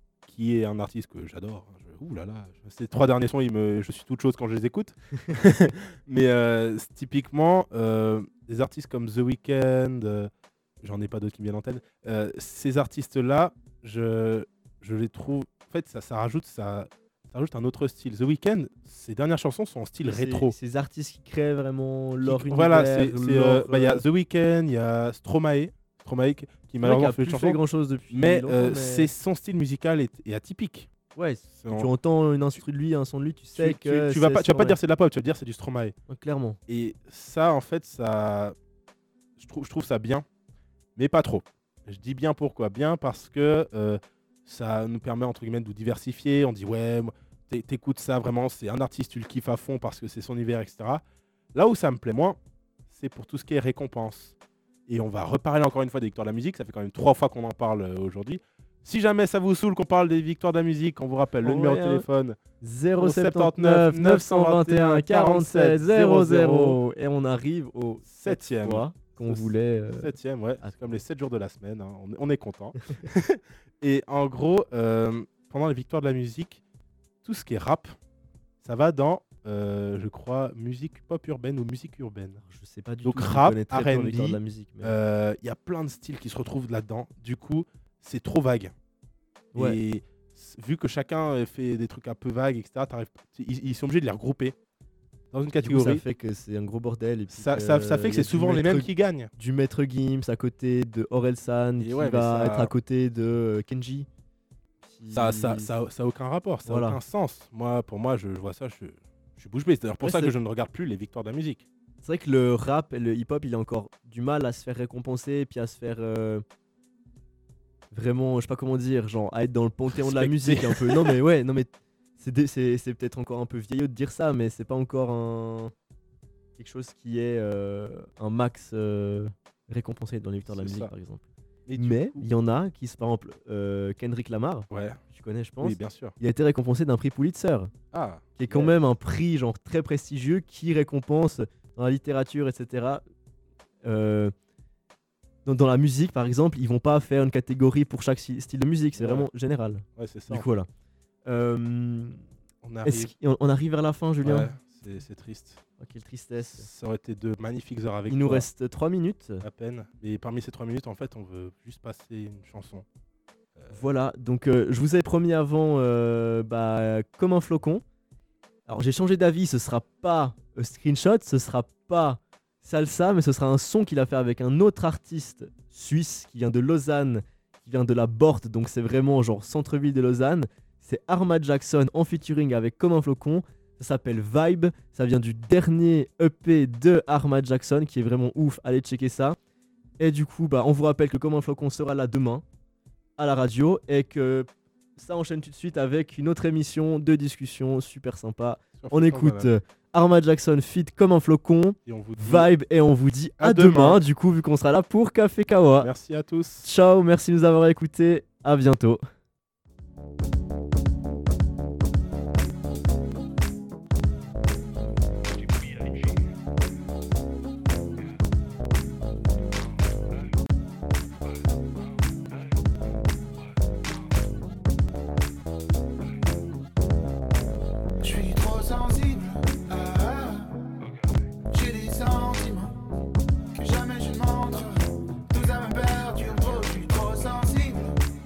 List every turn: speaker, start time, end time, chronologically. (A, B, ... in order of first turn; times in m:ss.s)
0:00.2-0:20.6 A
0:20.0-0:24.0 B
0:22.2-0:30.9 A
0:26.8-0:29.1 B
0:31.1-0:34.8 B
0:31.5-0:31.9 A
0:33.6-0:36.0 A
0:36.1-0:36.6 B
0:36.7-0:38.6 A
0:39.4-0:40.2 A
0:41.0-0:51.0 A
0:51.5-0:54.4 A
0:54.9-1:02.4 A
1:01.4-1:02.0 B
1:02.6-1:10.9 B
1:03.0-1:06.8 A
1:08.0-1:16.6 A
1:17.2-1:18.0 A
1:18.6-1:22.4 A
1:22.4-1:24.9 B
1:23.0-1:28.7 A
1:29.5-1:34.5 A
1:35.3-1:36.0 A
1:35.6-1:44.1 B
1:37.3-1:39.3 A
1:41.8-1:42.7 A
1:44.8-1:45.7 B
1:45.1-1:51.7 A
1:46.7-1:47.0 B
1:50.0-1:50.3 B
1:52.0-1:56.4 B
1:57.9-2:05.7 B
1:59.9-2:01.1 A
2:06.6-2:11.2 B
2:10.4-2:10.9 A
2:11.7-2:12.3 A
2:11.8-2:17.7 B
2:14.7-2:15.0 A
2:15.6-2:16.2 A
2:17.9-2:18.8 A
2:18.4-2:23.0 B
2:23.8-2:24.3 B
2:25.4-2:30.7 B
2:29.0-2:29.3 A
2:30.0-2:30.4 A
2:31.3-2:32.2 B
2:32.6-2:33.1 A
2:32.8-2:34.5 B
2:34.2-2:35.6 A
2:35.8-2:36.7 B
2:36.4-2:38.5 A
2:38.1-2:39.4 B
2:39.4-2:42.8 A
2:43.6-2:43.8 A
2:43.7-2:47.8 B
2:48.7-3:09.4 B
3:10.0-3:12.4 B
3:13.2-3:25.9 B
3:18.8-3:19.5 A
3:21.8-3:22.5 A
3:23.4-3:24.0 A
3:25.8-3:26.7 A
3:26.6-3:29.0 B
3:48.0-3:50.5 C
3:51.5-3:52.7 C
3:53.5-3:54.8 C
3:55.3-3:58.0 C